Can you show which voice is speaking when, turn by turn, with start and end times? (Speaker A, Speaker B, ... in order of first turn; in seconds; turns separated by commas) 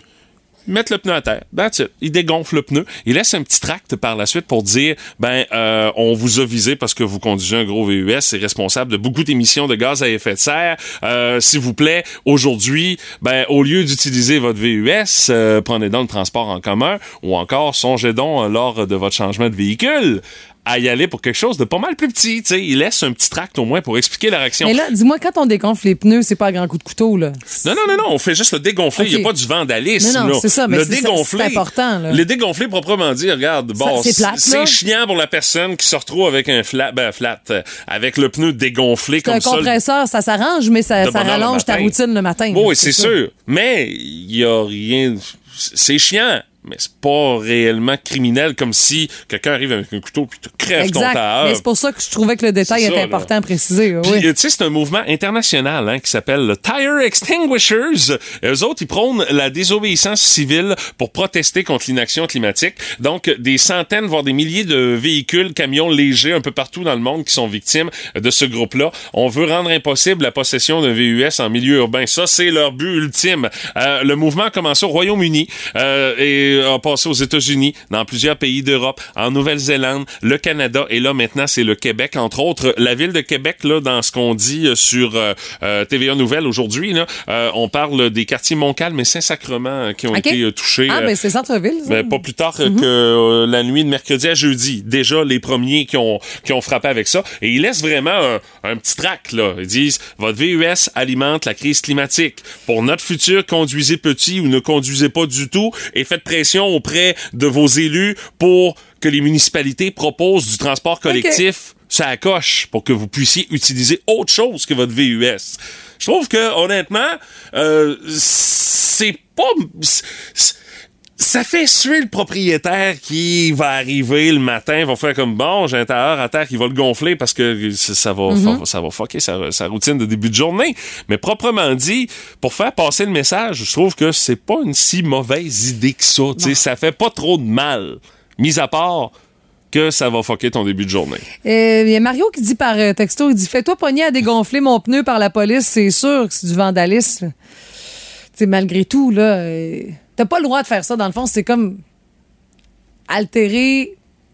Speaker A: 0.7-24.8, Speaker B: 24.6-27.6, Speaker A: 27.6-39.7, Speaker B: 29.0-29.3, Speaker B: 30.0-32.2, Speaker B: 33.8-34.8, Speaker B: 39.2-43.1, Speaker A: 41.0-42.0, Speaker A: 42.5-51.6, Speaker B: 50.8-54.3, Speaker A: 52.6-53.3, Speaker A: 54.0-91.1, Speaker B: 90.1-92.9, Speaker A: 91.9-120.5, Speaker B: 111.1-111.4, Speaker A: 121.2-139.1, Speaker B: 128.3-128.6, Speaker A: 139.7-141.2, Speaker B: 141.4-147.3, Speaker B: 148.4-151.8, Speaker B: 153.1-153.9